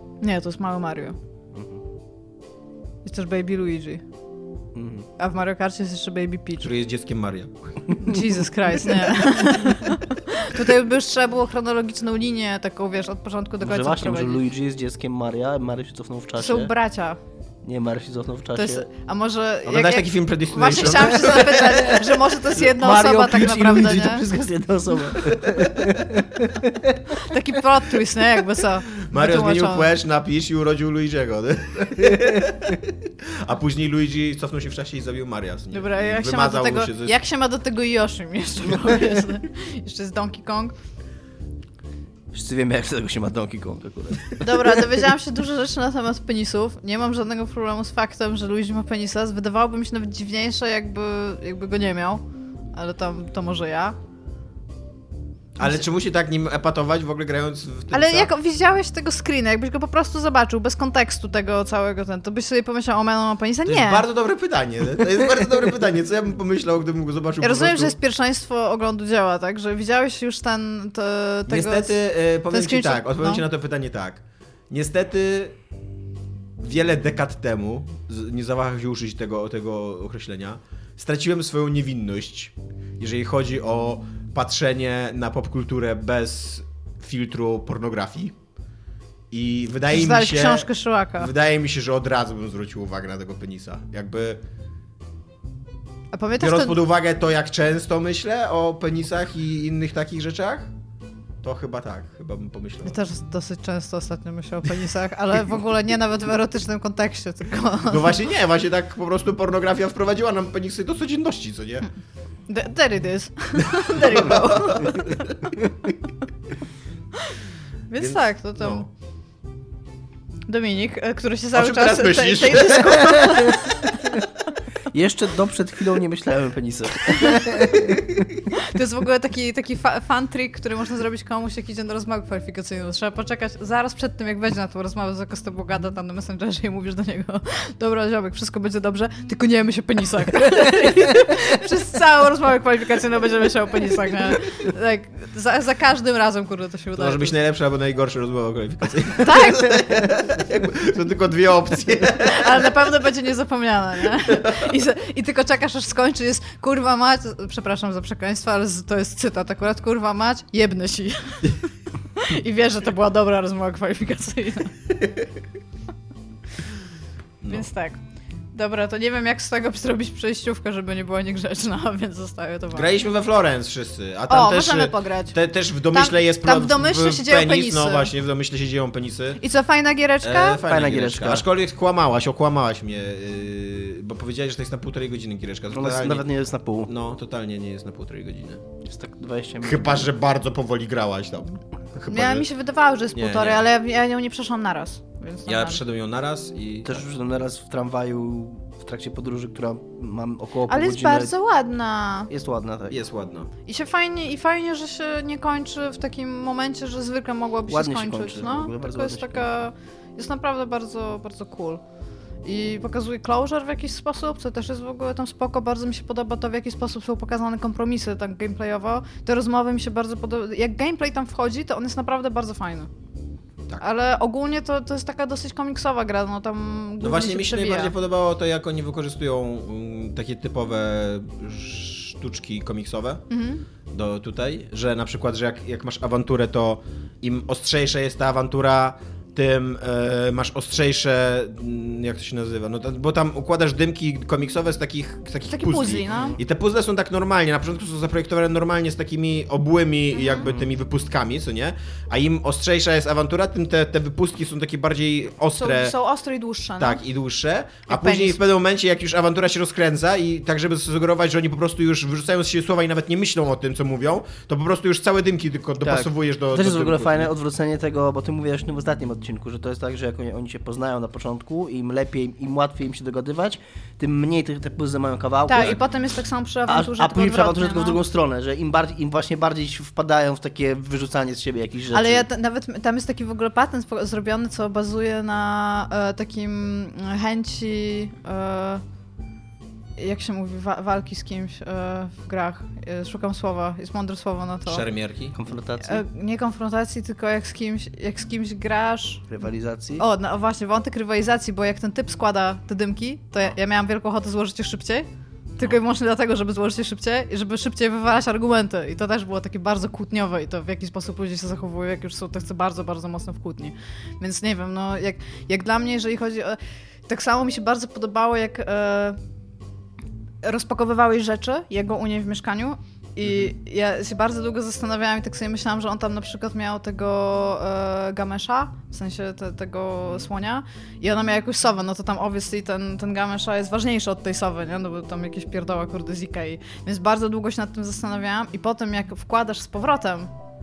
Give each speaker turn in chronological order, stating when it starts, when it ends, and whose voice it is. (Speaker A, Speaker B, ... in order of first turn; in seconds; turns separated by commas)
Speaker A: 0.2-1.2, Speaker B: 1.5-1.8, Speaker A: 3.0-4.0, Speaker B: 4.7-5.1, Speaker A: 5.2-6.7, Speaker C: 6.6-8.1, Speaker A: 8.0-14.4, Speaker B: 13.6-16.7, Speaker A: 16.4-17.2, Speaker B: 17.6-18.9, Speaker A: 18.5-24.3, Speaker C: 19.6-22.1, Speaker B: 22.5-27.2, Speaker A: 27.1-29.9, Speaker C: 29.1-37.2, Speaker A: 35.7-40.7, Speaker B: 42.3-44.8, Speaker A: 44.4-54.0, Speaker C: 55.6-58.3, Speaker A: 57.9-64.0, Speaker C: 63.6-68.0, Speaker A: 67.4-72.0, Speaker C: 71.5-75.5, Speaker A: 72.5-73.4, Speaker C: 76.6-88.3, Speaker C: 89.3-90.7, Speaker A: 89.9-91.3, Speaker C: 91.2-94.4, Speaker A: 96.1-96.8, Speaker C: 96.4-100.7, Speaker C: 101.4-103.0, Speaker A: 102.8-108.2, Speaker C: 107.9-111.9, Speaker A: 112.5-115.1, Speaker C: 113.7-115.6, Speaker A: 117.9-118.8, Speaker C: 118.0-118.9, Speaker A: 120.5-123.8, Speaker C: 121.5-123.7, Speaker B: 123.0-123.5, Speaker B: 124.9-128.2, Speaker A: 128.5-147.3, Speaker C: 147.0-152.7, Speaker A: 149.2-149.8, Speaker A: 152.2-164.7, Speaker C: 167.4-167.7, Speaker A: 167.5-168.0, Speaker A: 168.5-172.9, Speaker C: 172.7-179.4, Speaker A: 174.3-175.3, Speaker A: 175.9-178.1, Speaker A: 179.4-180.6, Speaker C: 180.2-186.3, Speaker B: 180.6-181.4, Speaker B: 185.7-186.9, Speaker C: 186.8-188.6, Speaker B: 188.8-190.1, Speaker C: 189.6-192.5, Speaker A: 192.1-195.8, Speaker C: 193.1-193.6, Speaker C: 195.4-197.0, Speaker B: 196.8-201.3, Speaker A: 200.7-202.3, Speaker B: 202.3-203.0, Speaker C: 202.9-203.5, Speaker A: 203.7-211.8, Speaker B: 207.7-209.5, Speaker A: 212.4-222.9, Speaker A: 223.8-227.9, Speaker C: 227.0-233.2, Speaker A: 233.3-233.6, Speaker C: 233.9-255.9, Speaker A: 245.5-246.4, Speaker B: 246.1-246.4, Speaker A: 250.1-250.5, Speaker A: 255.5-257.0, Speaker C: 256.8-267.3, Speaker A: 257.9-258.4, Speaker B: 265.8-275.8, Speaker A: 275.5-278.0, Speaker B: 276.7-282.2, Speaker A: 281.9-288.8, Speaker A: 290.0-294.8, Speaker C: 294.7-295.4, Speaker B: 295.3-296.0, Speaker A: 295.8-299.3, Speaker B: 299.3-300.0, Speaker A: 300.0-319.2, Speaker A: 320.4-340.3